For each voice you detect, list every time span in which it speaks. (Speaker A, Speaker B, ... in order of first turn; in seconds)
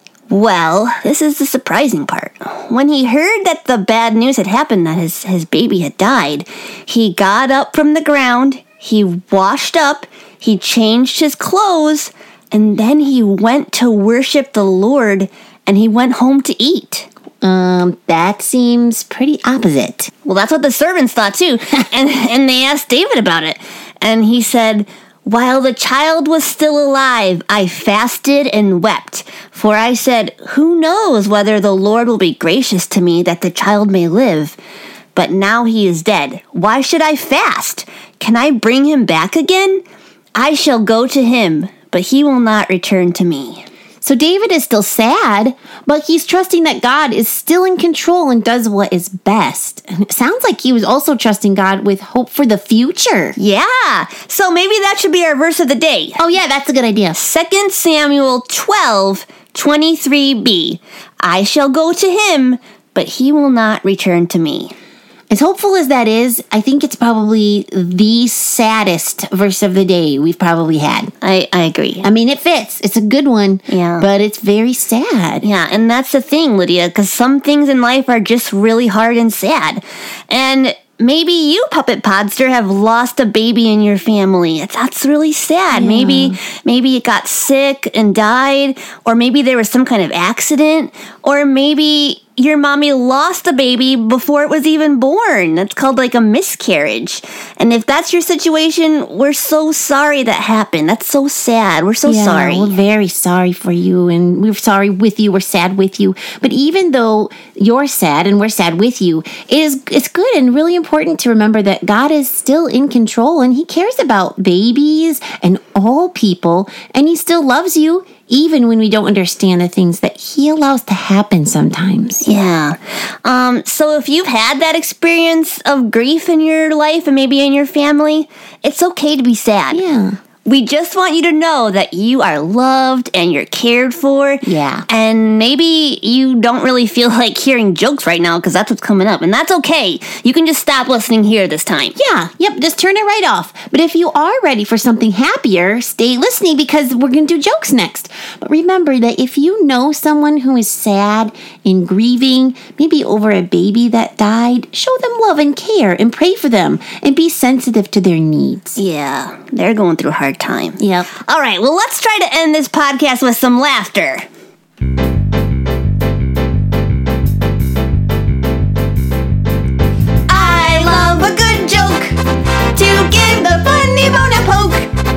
Speaker A: 0.3-17.1, 20.2-34.6, 35.1-39.8, 40.4-43.6, 53.4-56.2, 57.1-64.7, 71.2-72.1, 73.7-74.1, 75.4-102.8, 122.2-129.8, 130.5-142.0, 158.8-164.3, 170.3-172.2, 172.8-174.9
Speaker B: 17.4-20.1, 44.0-53.4, 56.2-57.2, 65.3-71.1, 72.0-75.5, 85.7-86.4, 102.0-122.2, 129.7-130.2, 134.4-134.9, 142.0-158.8, 160.8-161.1